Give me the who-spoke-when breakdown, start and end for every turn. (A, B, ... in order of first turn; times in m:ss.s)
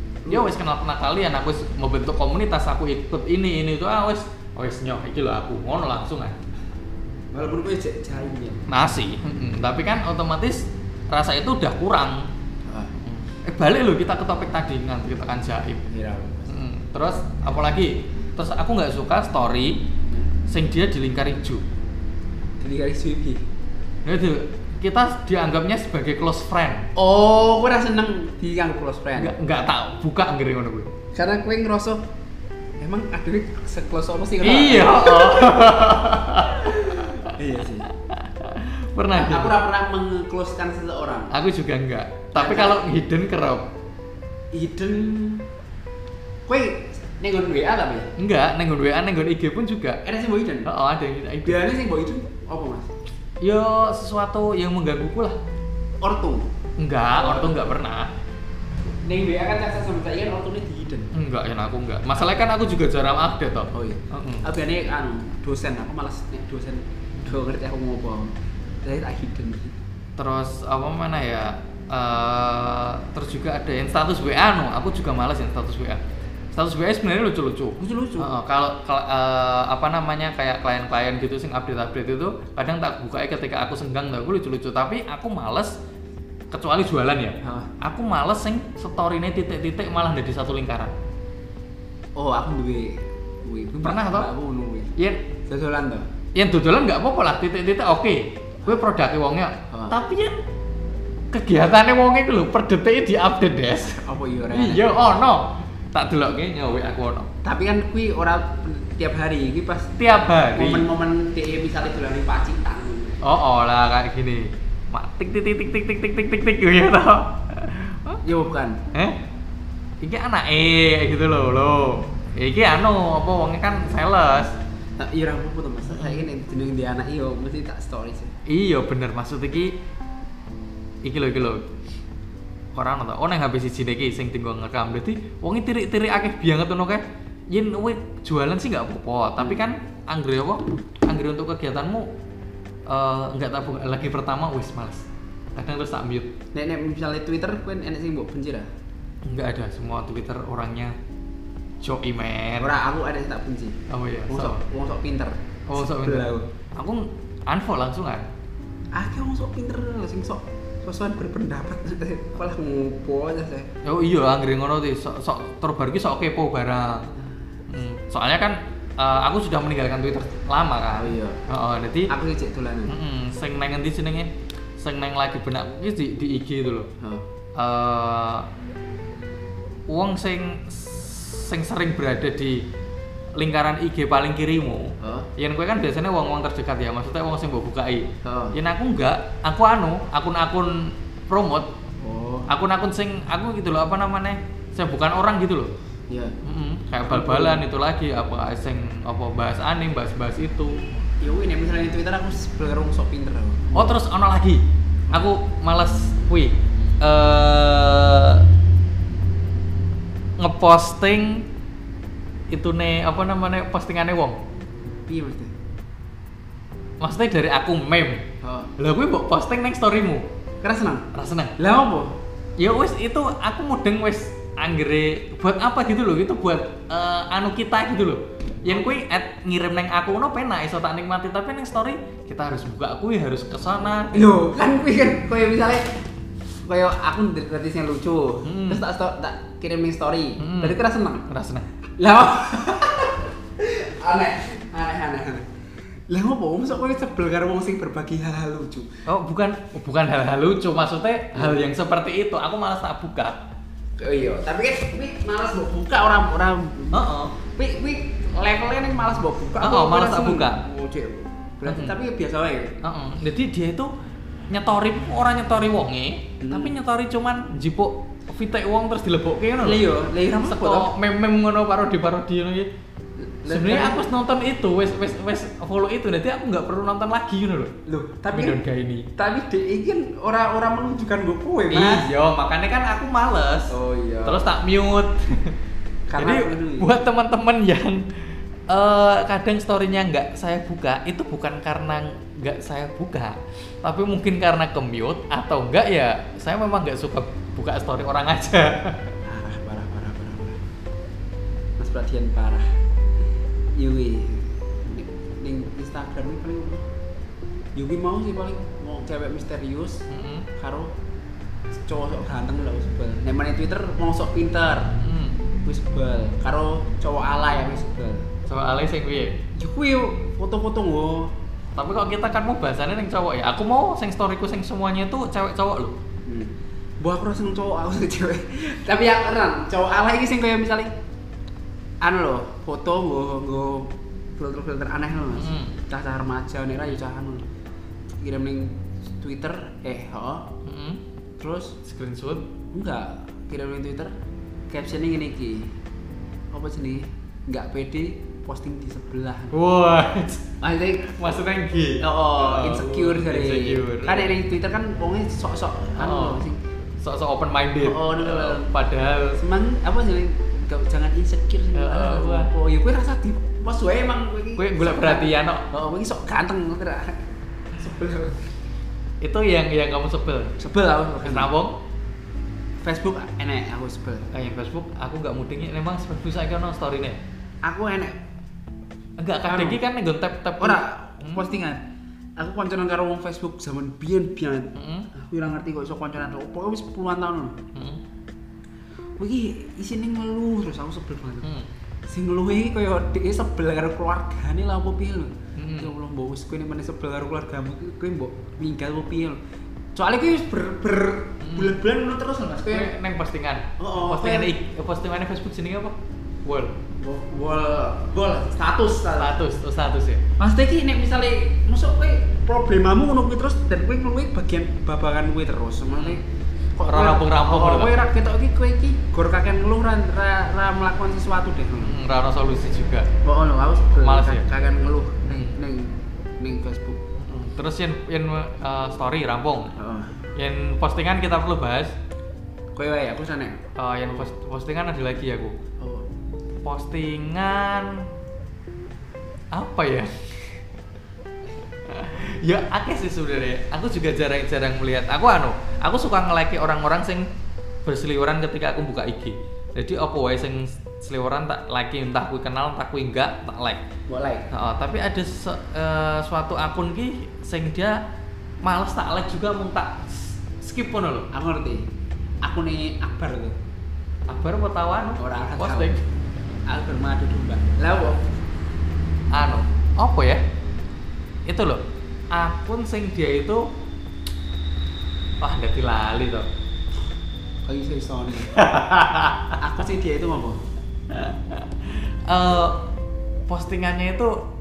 0:00.2-0:00.5 A
0:00.3-0:06.4 B
0:07.3-0:08.6 A
0:08.7-0:12.3 B
0:12.6-0:12.9 A
0:13.0-0:15.8 B
0:15.9-0:16.5 A
0:16.5-0:19.8 B
0:20.5-0:21.6 B
0:22.6-0:23.4 A
0:24.0-0:26.9 B
0:27.0-0:29.4 A
0:29.2-0:30.9 B
0:31.1-0:32.0 A
0:32.8-0:35.8 A
0:34.4-0:37.3 B
0:36.4-0:37.9 A
0:37.9-0:39.6 B
0:39.1-0:41.3 A
0:41.3-0:43.7 B
0:42.3-0:42.9 A
0:44.5-0:45.5 A
0:46.5-0:48.1 A
0:48.2-0:50.0 B
0:50.0-0:50.7 A
0:50.6-0:51.6 B
0:51.4-0:52.9 A
0:53.4-0:55.4 B
0:56.0-0:56.5 A
0:56.8-0:58.1 B
0:57.2-0:57.6 A
0:59.0-1:01.1 A
1:01.1-1:04.4 B
1:03.7-1:08.3 A
1:08.8-1:09.7 A
1:10.2-1:16.0 B
1:16.5-1:25.7 B
1:17.8-1:18.3 A
1:26.5-1:30.9 B
1:27.4-1:27.7 A
1:32.2-1:34.9 A
1:33.8-1:34.3 B
1:35.0-1:35.2 B
1:35.5-1:36.1 A
1:36.3-1:40.4 B
1:41.3-1:47.3 B
1:43.9-1:44.9 A
1:47.4-1:50.0 A
1:50.0-1:50.9 B
1:50.5-1:53.2 A
1:53.2-1:58.2 B
1:58.2-1:58.8 A
1:58.9-1:59.2 B
2:00.0-2:04.6 B
2:05.0-2:08.3 A
2:05.9-2:06.2 B
2:08.4-2:09.8 B
2:11.0-2:11.7 B
2:12.7-2:22.1 B
2:22.9-2:26.3 B
2:26.5-2:28.7 A
2:29.2-2:31.0 B
2:31.8-2:32.7 B
2:32.6-2:36.5 A
2:33.9-2:34.6 B
2:35.7-2:38.3 B
2:38.9-2:43.7 A
2:43.8-2:47.1 B
2:47.7-2:52.1 B
2:51.0-2:51.4 A
2:52.1-2:52.9 A
2:52.9-2:56.9 B
2:57.6-2:58.5 B
2:59.9-3:02.6 B
3:03.4-3:11.7 B
3:05.0-3:05.3 A
3:08.2-3:08.6 A
3:12.0-3:12.5 A
3:12.5-3:15.7 B
3:16.1-3:16.3 A
3:16.4-3:20.8 B
3:17.0-3:17.6 A
3:21.2-3:24.0 A
3:23.7-3:28.4 B
3:30.4-3:31.4 B
3:32.5-3:34.4 B
3:35.1-3:35.5 A
3:37.0-3:38.2 B
3:38.4-3:38.7 A
3:38.8-3:40.2 B
3:40.6-3:42.1 A
3:41.1-3:41.5 B
3:42.6-3:54.3 B
3:54.1-3:56.0 A
3:56.6-4:01.2 A
3:58.4-3:58.8 B
4:00.4-4:01.7 B
4:02.0-4:05.4 A
4:06.1-4:09.0 A
4:09.0-4:13.4 B
4:11.3-4:11.7 A
4:14.0-4:22.8 A
4:16.9-4:17.3 B
4:19.6-4:20.6 B
4:21.6-4:22.0 B
4:22.8-4:23.9 B
4:24.5-4:32.7 B
4:26.4-4:26.8 A
4:29.6-4:30.9 A
4:33.2-4:34.0 A
4:33.5-4:37.7 B
4:37.9-4:38.6 A
4:38.3-4:39.1 B
4:39.2-4:42.1 A
4:41.7-4:43.7 B
4:43.7-4:44.5 A
4:44.2-4:45.6 B
4:46.1-4:46.9 A
4:46.2-4:48.1 B
4:48.7-4:59.1 B
4:59.2-5:00.6 A
5:01.8-5:02.6 A
5:03.8-5:06.9 A
5:07.7-5:10.9 A
5:10.1-5:10.5 B
5:11.7-5:14.9 A
5:15.0-5:15.4 B
5:15.6-5:18.3 A
5:18.5-5:19.4 B
5:19.6-5:21.3 A
5:21.8-5:26.0 B
5:26.3-5:30.9 A
5:32.0-5:37.4 A
5:35.3-5:35.7 B
5:38.2-5:40.5 A
5:40.6-5:41.0 B
5:41.4-5:41.8 A
5:41.8-5:42.5 B
5:42.7-5:44.1 A
5:44.7-5:45.7 A
5:46.5-5:49.6 A
5:49.5-5:50.4 B
5:50.6-5:51.1 A
5:51.0-5:54.3 B
5:52.0-5:56.6 A
5:56.0-5:59.4 B
5:57.8-5:58.7 A
5:59.4-6:07.2 A
6:01.7-6:02.5 B
6:04.6-6:05.6 B
6:07.8-6:08.4 A
6:09.2-6:10.5 B
6:10.6-6:11.5 A
6:11.2-6:11.8 B
6:12.8-6:14.3 A
6:14.3-6:17.2 B
6:17.6-6:18.2 A
6:19.2-6:21.4 B
6:19.4-6:19.8 A
6:20.6-6:21.8 A
6:22.4-6:27.6 A
6:24.7-6:25.1 B
6:27.7-6:28.0 B
6:29.2-6:31.5 A
6:31.4-6:31.7 B
6:32.1-6:39.4 A
6:35.6-6:35.9 B
6:40.0-6:42.9 A
6:41.4-6:41.8 B
6:42.6-6:46.8 B
6:43.8-6:44.5 A
6:47.0-6:49.4 A
6:49.2-6:50.2 B
6:50.4-6:56.2 A
6:55.9-6:56.2 B
6:56.8-7:01.9 A
6:56.8-6:58.0 B
7:01.8-7:03.1 B
7:03.2-7:07.0 A
7:03.9-7:04.4 B
7:05.3-7:05.5 B
7:07.2-7:09.7 B
7:09.8-7:10.2 A
7:10.3-7:11.9 B
7:12.8-7:14.3 A
7:13.8-7:15.5 B
7:15.8-7:16.1 A
7:16.6-7:18.0 B
7:19.5-7:20.1 B
7:21.8-7:27.3 B
7:27.8-7:33.8 B
7:34.1-7:34.5 A
7:34.5-7:38.0 B
7:38.6-7:41.3 B
7:41.3-7:41.8 A
7:42.4-7:43.6 A
7:44.3-7:46.0 B
7:45.2-7:45.9 A
7:46.7-7:48.2 A
7:49.3-7:50.4 B
7:51.4-7:53.6 B
7:55.4-7:56.5 B
7:57.6-7:58.6 A
7:58.4-7:59.6 B
7:59.6-8:00.6 A
8:01.1-8:02.8 B
8:03.5-8:04.4 B